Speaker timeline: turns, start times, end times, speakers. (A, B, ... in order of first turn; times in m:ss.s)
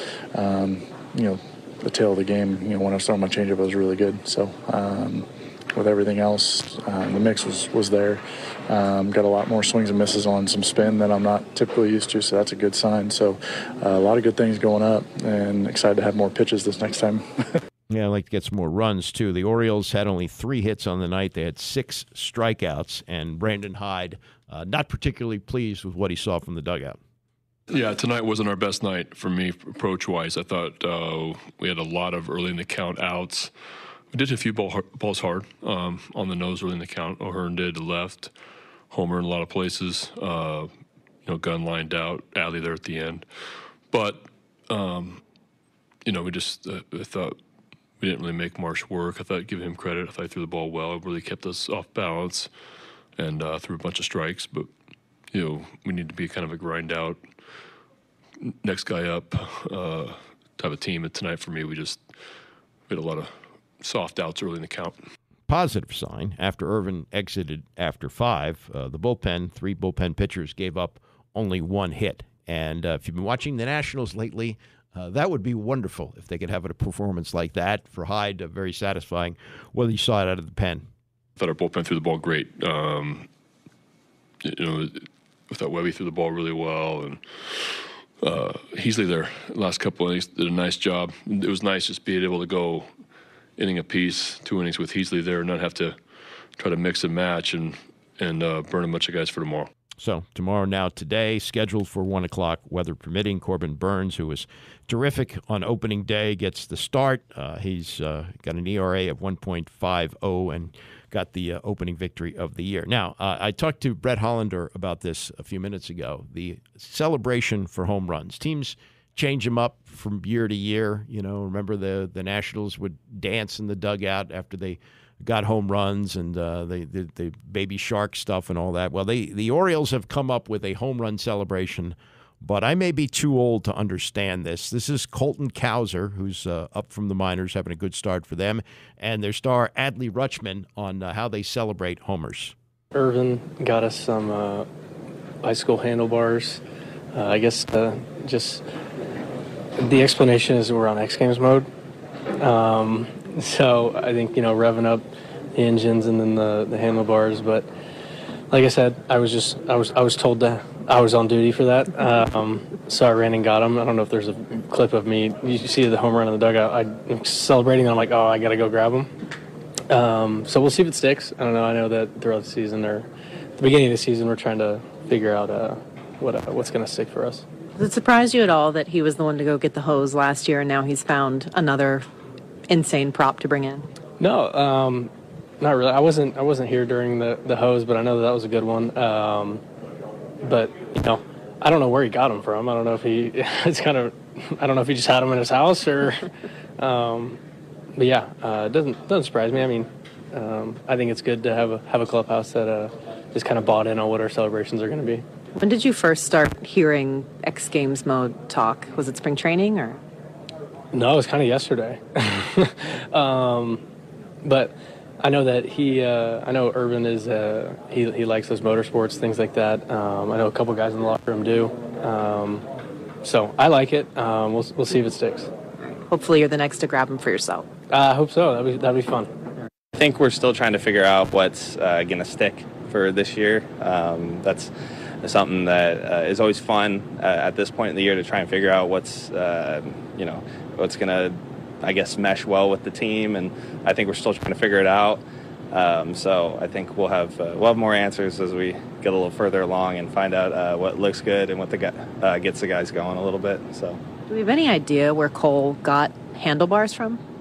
0:00.3-0:17.2 A
0:17.9-0:27.0 B
0:27.7-0:33.5 C
0:34.1-0:38.3 C
0:38.9-0:40.7 C
0:41.2-0:43.2 C
0:43.9-0:45.2 C
0:46.0-0:47.4 C
0:48.0-0:52.5 C
0:53.2-0:54.7 C
0:55.3-0:57.2 C
0:58.4-1:02.0 C
1:02.9-1:05.0 C
1:05.5-1:20.8 B
1:21.4-1:23.3 C
1:24.4-1:32.9 C
1:33.6-1:36.0 C
1:36.6-1:39.7 C
1:40.0-2:22.5 B
2:22.9-2:24.7 D
2:25.4-2:26.6 D
2:27.1-2:28.6 D
2:29.8-2:31.7 D
2:32.4-2:37.7 D
2:38.5-2:49.1 D
2:49.9-2:57.4 D
2:57.8-3:02.1 E
3:02.7-3:03.9 E
3:04.2-3:09.6 D
3:10.4-3:16.2 D
3:16.8-3:17.4 D
3:18.0-3:25.2 D
3:25.6-3:30.0 E
3:30.9-3:33.8 D
3:34.4-3:42.6 D
3:43.2-3:45.5 D
3:45.8-3:47.7 E
3:47.9-3:49.3 D
3:49.9-3:54.7 F
3:55.2-4:14.0 F
4:14.3-4:17.2 E